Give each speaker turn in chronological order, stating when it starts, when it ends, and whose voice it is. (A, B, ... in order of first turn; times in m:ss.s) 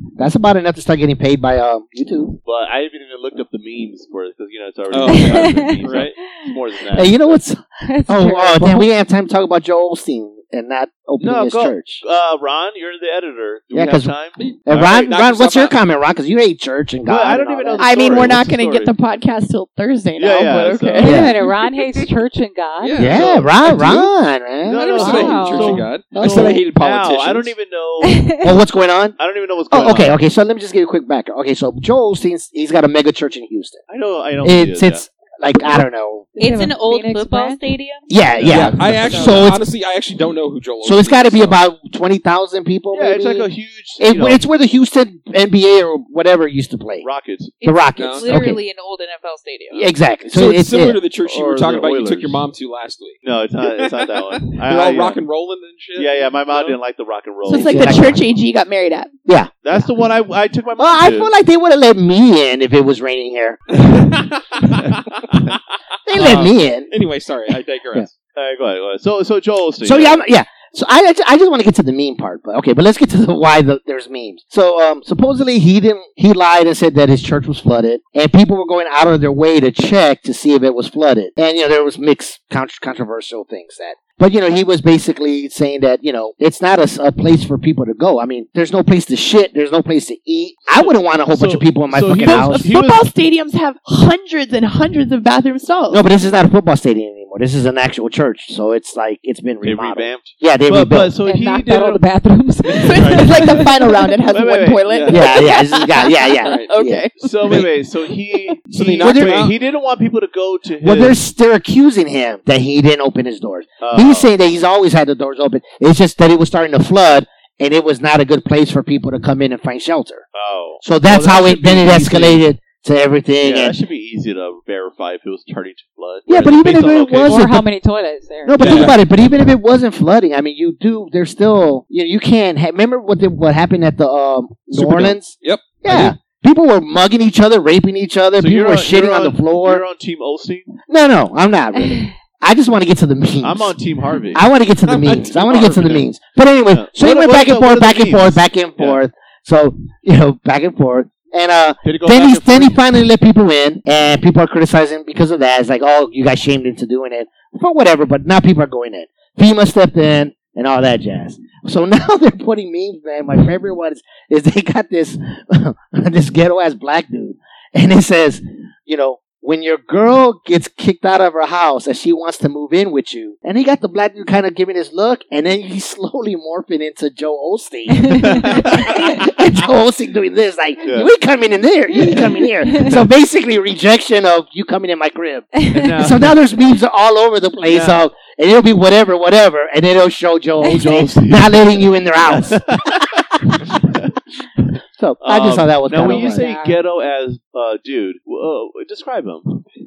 0:00.2-0:02.4 A
0:02.4-0:07.4 B
0:04.9-0:06.1 C
0:05.1-0:06.6 D
0:06.9-0:12.0 A
0:07.8-0:08.9 D
0:11.2-0:15.2 B
0:13.7-0:14.1 A
0:14.4-0:15.8 C
0:14.7-0:18.5 A
0:17.1-0:18.9 B
0:17.8-0:21.2 E
0:20.2-0:21.1 B
0:21.0-0:23.1 D
0:21.0-0:21.3 A
0:22.8-0:23.5 C
0:23.0-0:25.3 A
0:23.1-0:24.1 B
0:24.6-0:28.3 B
0:24.7-0:27.5 C
0:24.9-0:26.0 D
0:26.1-0:26.6 A
0:28.0-0:28.6 D
0:28.4-0:29.2 A
0:29.2-0:30.2 B
0:29.7-0:33.8 A
0:33.9-0:35.0 B
0:34.4-0:36.4 A
0:36.4-0:37.6 D
0:36.4-0:38.1 F
0:38.1-0:39.6 A
0:38.4-0:39.1 B
0:38.5-0:41.6 C
0:39.0-0:39.4 F
0:40.8-0:47.1 A
0:42.9-0:44.4 B
0:47.0-0:47.6 B
0:47.6-0:49.9 F
0:47.6-0:48.6 A
0:48.0-0:48.5 C
0:49.7-0:51.0 A
0:50.3-0:56.8 C
0:51.2-0:52.5 B
0:53.2-0:55.2 B
0:56.0-0:58.0 B
0:57.4-0:59.2 E
0:57.5-0:58.2 A
0:59.3-0:59.5 A
0:59.6-1:01.3 B
1:00.8-1:03.6 A
1:03.7-1:05.6 C
1:06.1-1:06.9 A
1:06.2-1:06.5 B
1:06.9-1:08.1 C
1:08.4-1:10.2 B
1:09.8-1:32.8 A
1:30.8-1:33.1 B
1:32.1-1:36.1 E
1:35.9-1:41.2 A
1:39.6-1:42.1 B
1:41.2-1:44.0 D
1:42.6-1:43.6 B
1:42.8-1:47.5 E
1:44.3-1:45.1 B
1:44.9-1:45.3 C
1:45.1-1:47.0 A
1:46.4-1:46.7 C
1:47.2-1:51.2 B
1:47.4-1:47.7 C
1:48.7-1:49.5 C
1:49.0-1:49.5 A
1:50.8-2:00.2 A
1:53.8-1:54.3 B
2:00.3-2:02.4 B
2:00.8-2:03.8 A
2:03.4-2:07.5 B
2:06.3-2:07.7 A
2:07.2-2:08.8 D
2:08.4-2:19.8 A
2:08.6-2:09.0 C
2:14.8-2:16.1 C
2:14.8-2:15.1 B
2:18.4-2:20.7 B
2:20.9-2:23.8 A
2:23.4-2:24.5 B
2:24.3-3:12.6 A
2:24.9-2:26.0 C
2:25.1-2:26.0 B
2:26.7-2:29.0 B
2:31.8-2:32.8 B
2:58.1-2:58.6 D
2:58.2-2:59.1 B
3:00.8-3:01.1 B
3:02.1-3:02.9 D
3:05.6-3:05.9 D
3:05.7-3:06.5 B
3:07.7-3:08.1 B
3:10.6-3:13.2 B
3:10.7-3:11.0 D
3:15.0-3:16.4 A
3:15.2-3:19.7 B
3:16.0-3:16.8 D